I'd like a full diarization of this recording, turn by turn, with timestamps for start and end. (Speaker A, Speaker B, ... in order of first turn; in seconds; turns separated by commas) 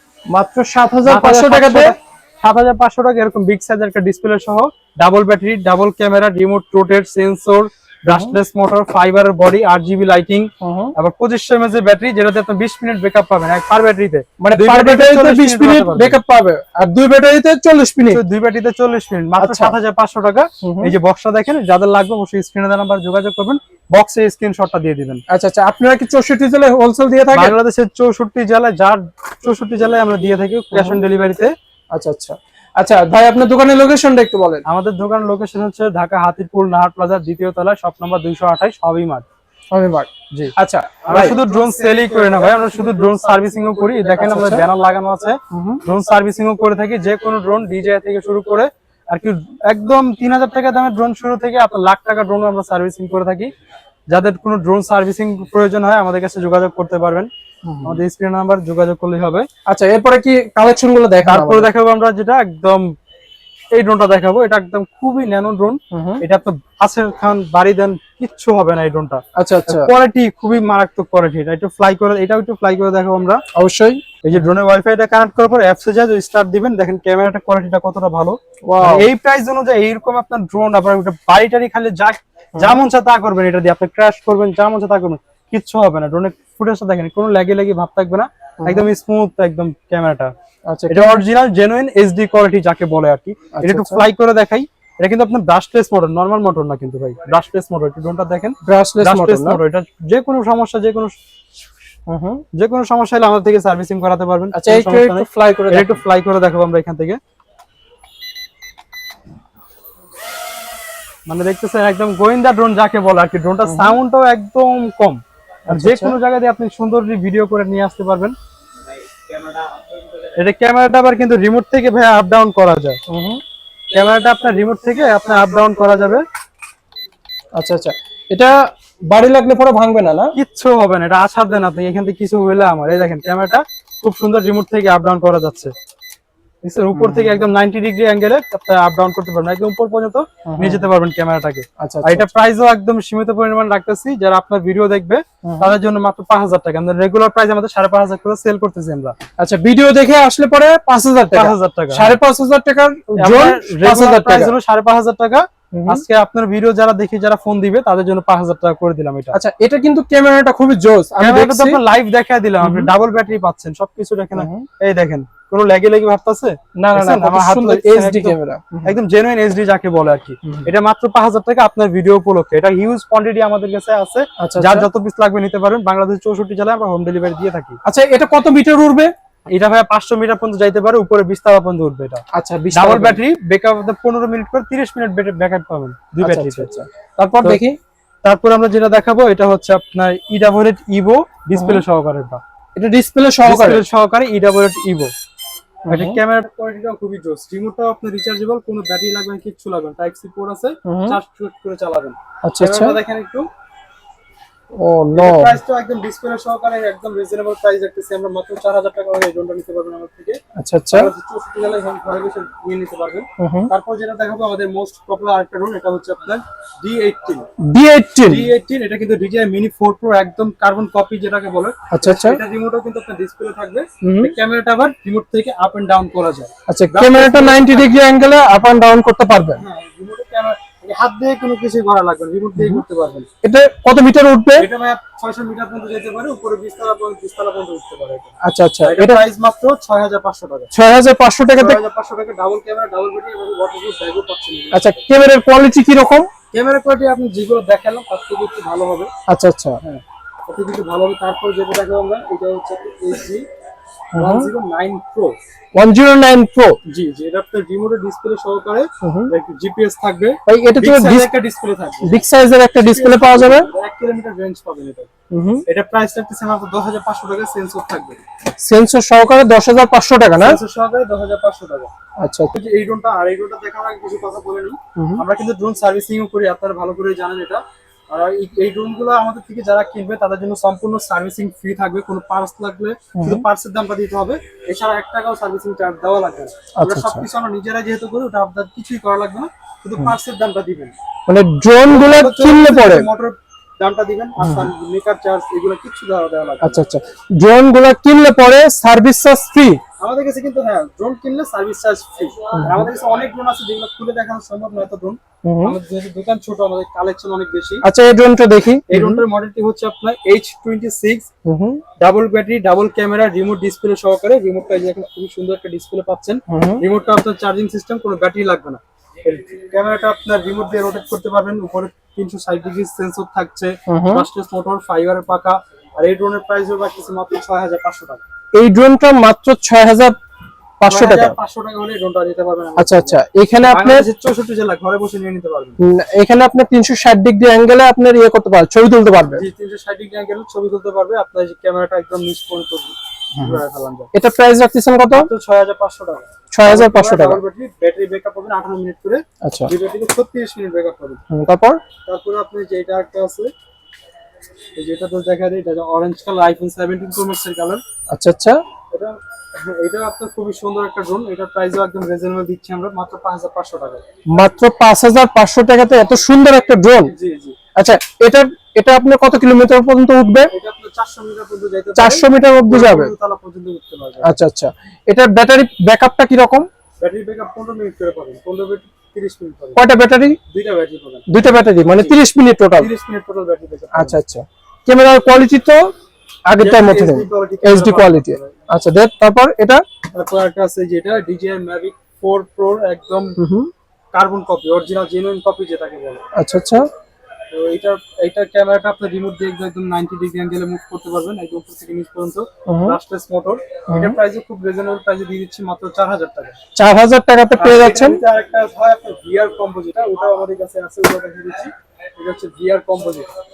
Speaker A: 0.3-1.9, Speaker B: 1.1-16.2, Speaker A: 8.1-8.4, Speaker A: 10.6-10.9, Speaker A: 14.4-18.2, Speaker B: 18.1-25.2, Speaker A: 19.4-19.8, Speaker A: 20.6-20.9, Speaker A: 25.3-27.5, Speaker B: 27.3-31.5, Speaker A: 30.7-31.0, Speaker A: 31.9-34.6, Speaker B: 34.6-39.2, Speaker A: 39.7-41.4, Speaker B: 41.0-53.5, Speaker A: 44.2-44.6, Speaker A: 45.5-45.8, Speaker B: 54.1-57.3, Speaker A: 57.6-58.0, Speaker B: 57.8-59.5, Speaker A: 59.6-61.7, Speaker B: 61.2-62.9, Speaker B: 63.7-73.4, Speaker A: 65.9-66.2, Speaker A: 69.3-69.9, Speaker A: 73.5-74.0, Speaker B: 74.2-90.3, Speaker A: 78.7-79.1, Speaker A: 88.6-88.9, Speaker A: 90.7-91.2, Speaker B: 90.9-101.1, Speaker A: 93.5-94.0, Speaker A: 98.6-99.6, Speaker A: 102.1-102.4, Speaker B: 102.5-107.2, Speaker A: 104.5-106.0, Speaker B: 111.3-118.3, Speaker A: 113.7-114.0, Speaker A: 115.7-116.2, Speaker B: 120.4-123.0, Speaker A: 123.1-123.4, Speaker B: 123.9-126.2, Speaker A: 127.6-128.6, Speaker A: 129.1-130.3, Speaker B: 130.3-135.7, Speaker B: 136.6-149.2, Speaker A: 136.9-137.4, Speaker A: 140.4-140.9, Speaker A: 141.8-142.3, Speaker A: 145.4-145.7, Speaker A: 149.4-154.5, Speaker B: 151.3-152.2, Speaker B: 153.2-159.3, Speaker A: 155.7-156.0, Speaker A: 159.3-161.8, Speaker B: 161.2-177.8, Speaker A: 162.6-162.9, Speaker A: 164.3-164.7, Speaker A: 166.8-169.0, Speaker A: 174.4-174.9, Speaker A: 177.8-179.1, Speaker B: 179.5-182.2, Speaker A: 182.3-183.2, Speaker B: 182.7-186.7, Speaker A: 186.2-187.8, Speaker B: 187.2-187.6, Speaker B: 188.2-192.4, Speaker A: 191.6-191.8, Speaker A: 192.8-193.8, Speaker B: 193.4-195.1, Speaker A: 195.8-196.2, Speaker B: 195.9-203.5, Speaker A: 200.8-201.2, Speaker A: 202.4-203.0, Speaker A: 204.8-205.5, Speaker B: 205.1-210.4, Speaker A: 210.6-211.1, Speaker B: 210.9-217.4, Speaker A: 213.4-213.7, Speaker A: 217.6-218.5, Speaker B: 218.2-228.0, Speaker A: 221.9-222.4, Speaker A: 224.0-224.3, Speaker A: 226.7-229.6, Speaker B: 229.6-233.3, Speaker A: 232.6-232.8, Speaker A: 233.4-234.7, Speaker B: 234.6-240.7, Speaker A: 238.4-239.2, Speaker A: 240.7-241.8, Speaker B: 241.6-245.0, Speaker A: 244.7-246.2, Speaker B: 246.5-249.1, Speaker A: 249.3-249.8, Speaker B: 249.8-253.4, Speaker A: 254.1-254.5, Speaker B: 254.2-255.4, Speaker A: 255.7-256.8, Speaker B: 256.9-262.2, Speaker A: 259.0-259.3, Speaker A: 260.5-261.3, Speaker A: 262.0-263.7, Speaker B: 262.8-265.1, Speaker A: 265.3-265.6, Speaker B: 265.7-268.2, Speaker A: 268.6-270.6, Speaker B: 270.4-271.9, Speaker A: 272.2-272.5, Speaker B: 272.5-290.9, Speaker A: 274.9-275.2, Speaker A: 283.1-283.4, Speaker A: 286.8-287.3, Speaker A: 291.3-293.1, Speaker B: 291.9-296.8, Speaker A: 294.4-294.7, Speaker A: 296.6-299.8, Speaker B: 300.0-307.8, Speaker A: 302.5-302.9, Speaker A: 305.4-305.8, Speaker A: 307.8-309.2, Speaker B: 308.9-311.3, Speaker A: 311.4-311.8, Speaker B: 312.0-328.2, Speaker A: 316.5-316.8, Speaker A: 323.9-324.3, Speaker A: 328.5-330.1, Speaker A: 330.8-331.4, Speaker B: 330.9-335.8, Speaker A: 332.8-334.1, Speaker A: 335.8-339.4, Speaker B: 339.3-344.1, Speaker A: 344.1-345.3, Speaker B: 345.1-351.2, Speaker A: 346.5-347.4, Speaker A: 349.4-349.7, Speaker A: 351.3-351.8, Speaker B: 352.1-353.5, Speaker B: 354.8-357.8, Speaker A: 358.1-358.6, Speaker B: 358.9-364.0, Speaker A: 364.3-367.1, Speaker B: 367.1-367.6, Speaker A: 367.8-370.5, Speaker B: 370.5-374.3, Speaker A: 372.0-373.1, Speaker A: 374.2-376.7, Speaker B: 377.0-379.8, Speaker A: 379.8-380.4, Speaker B: 380.5-381.3, Speaker A: 381.3-382.9, Speaker B: 381.9-382.1, Speaker B: 382.7-384.2, Speaker A: 383.9-385.9, Speaker A: 386.4-389.8, Speaker B: 386.6-388.6, Speaker B: 390.1-393.4, Speaker A: 393.4-393.7, Speaker B: 394.1-396.2, Speaker A: 396.3-396.9, Speaker B: 397.5-406.6, Speaker A: 402.6-403.0, Speaker A: 403.9-404.2, Speaker A: 406.7-408.2, Speaker B: 407.6-413.3